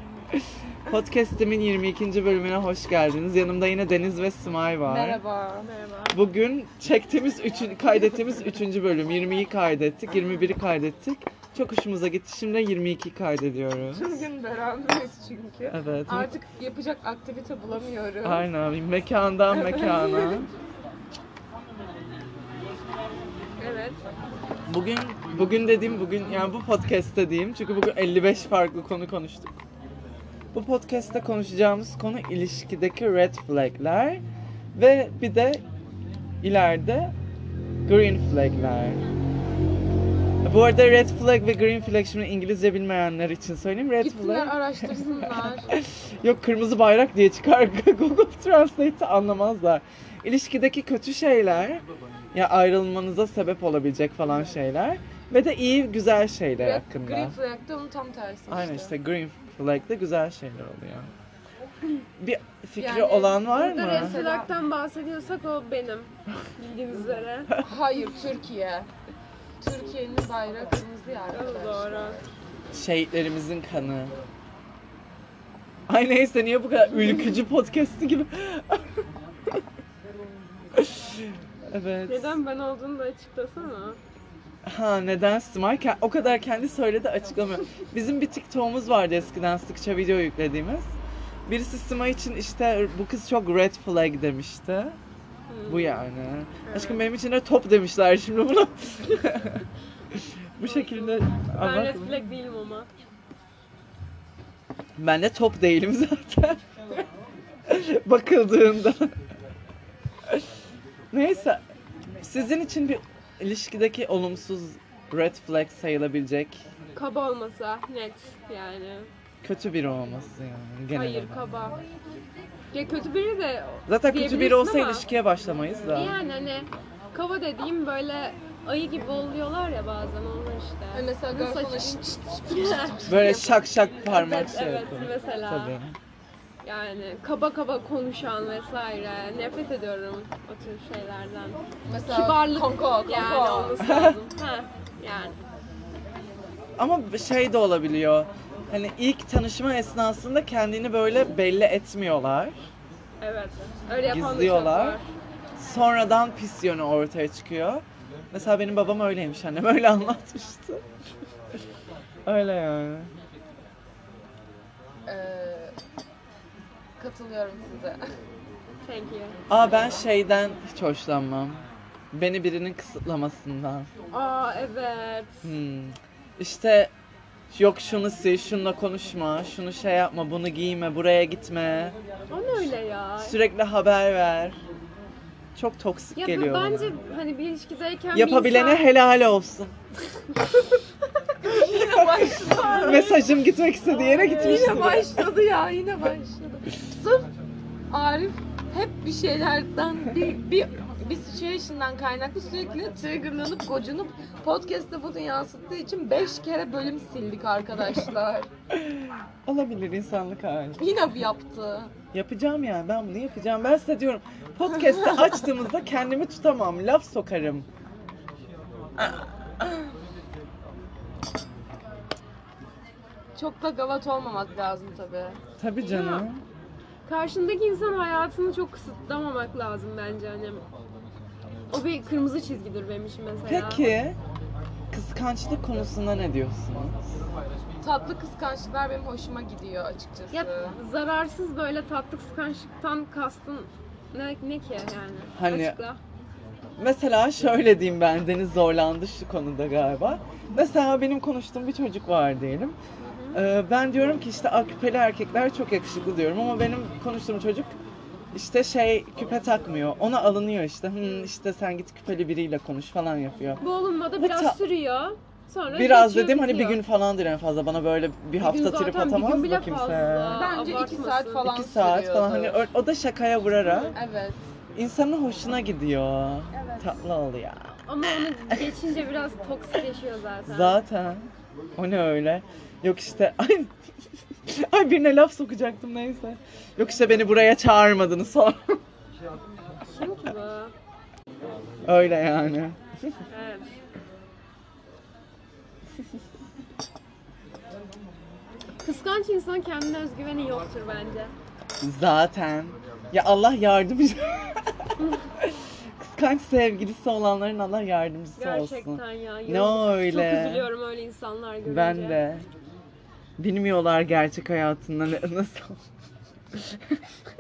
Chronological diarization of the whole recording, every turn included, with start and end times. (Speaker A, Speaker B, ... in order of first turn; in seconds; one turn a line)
Speaker A: 0.9-5.2
Speaker B: 4.8-5.7
Speaker C: 5.7-6.2
Speaker A: 6.1-14.2
Speaker B: 13.9-18.5
Speaker A: 15.7-16.3
Speaker A: 18.2-20.5
Speaker B: 19.5-20.4
Speaker C: 23.6-24.0
Speaker A: 24.7-29.6
Speaker A: 30.5-34.2
Speaker A: 34.8-35.6
Speaker A: 36.4-37.1
Speaker A: 37.9-39.0
Speaker A: 40.4-57.4
Speaker B: 44.0-45.7
Speaker B: 56.6-58.9
Speaker A: 58.5-61.1
Speaker A: 62.2-64.2
Speaker B: 62.8-64.5
Speaker C: 63.5-67.5
Speaker B: 67.6-68.9
Speaker B: 69.6-72.3
Speaker C: 71.3-72.2
Speaker A: 72.7-74.2
Speaker A: 75.9-78.8
Speaker A: 80.8-82.4
Speaker C: 82.1-84.0
Speaker A: 84.7-91.0
Speaker A: 91.5-95.0
Speaker C: 95.5-96.1
Speaker A: 95.7-102.3
Speaker C: 96.7-97.1
Speaker C: 100.6-102.9
Speaker A: 105.0-106.7
Speaker A: 107.7-109.2
Speaker A: 111.1-111.6
Speaker A: 112.2-116.6
Speaker C: 117.0-119.1
Speaker A: 119.4-121.5
Speaker C: 120.9-121.8
Speaker C: 122.7-125.1
Speaker A: 123.9-126.2
Speaker C: 125.9-133.0
Speaker B: 130.9-133.7
Speaker A: 133.1-136.0
Speaker C: 134.1-135.8
Speaker C: 136.6-145.4
Speaker B: 141.9-143.9
Speaker A: 143.8-144.2
Speaker A: 146.8-152.6
Speaker C: 153.2-155.1
Speaker A: 154.0-155.0
Speaker A: 155.6-160.8
Speaker A: 162.3-163.1
Speaker B: 165.1-165.8
Speaker B: 167.0-168.0
Speaker C: 168.8-169.4
Speaker A: 169.5-171.6
Speaker A: 172.1-173.9
Speaker C: 174.1-175.4
Speaker A: 175.4-176.9
Speaker A: 177.5-182.0
Speaker C: 182.3-183.4
Speaker A: 182.6-184.6
Speaker A: 185.6-186.9
Speaker C: 186.2-188.9
Speaker A: 188.1-189.8
Speaker B: 191.4-193.2
Speaker C: 192.4-195.1
Speaker A: 192.7-195.2
Speaker B: 194.3-197.3
Speaker B: 197.9-208.5
Speaker A: 208.8-210.8
Speaker B: 210.8-211.9
Speaker A: 212.1-217.7
Speaker B: 214.9-215.2
Speaker B: 219.0-219.5
Speaker B: 223.3-225.4
Speaker A: 225.6-226.4
Speaker C: 225.8-226.3
Speaker C: 227.1-230.6
Speaker C: 231.7-233.9
Speaker A: 233.5-234.2
Speaker A: 234.9-237.1
Speaker B: 237.8-240.8
Speaker C: 240.3-246.0
Speaker A: 245.4-245.8
Speaker A: 246.8-252.8
Speaker C: 253.1-253.4
Speaker A: 253.3-257.7
Speaker A: 258.3-263.6
Speaker C: 263.6-266.8
Speaker A: 264.2-264.6
Speaker A: 265.7-270.5
Speaker C: 268.4-271.5
Speaker B: 270.3-272.6
Speaker A: 271.4-274.0
Speaker C: 273.6-274.0
Speaker B: 273.9-274.4
Speaker A: 274.8-278.7
Speaker B: 276.5-277.0
Speaker C: 277.9-280.8
Speaker A: 280.5-283.7
Speaker A: 284.5-288.8
Speaker C: 289.8-290.7
Speaker A: 291.9-292.8
Speaker C: 293.3-293.8
Speaker C: 298.8-301.3
Speaker A: 301.8-310.7
Speaker C: 308.4-312.2
Speaker A: 311.6-312.5
Speaker A: 313.4-315.8
Speaker A: 316.5-317.0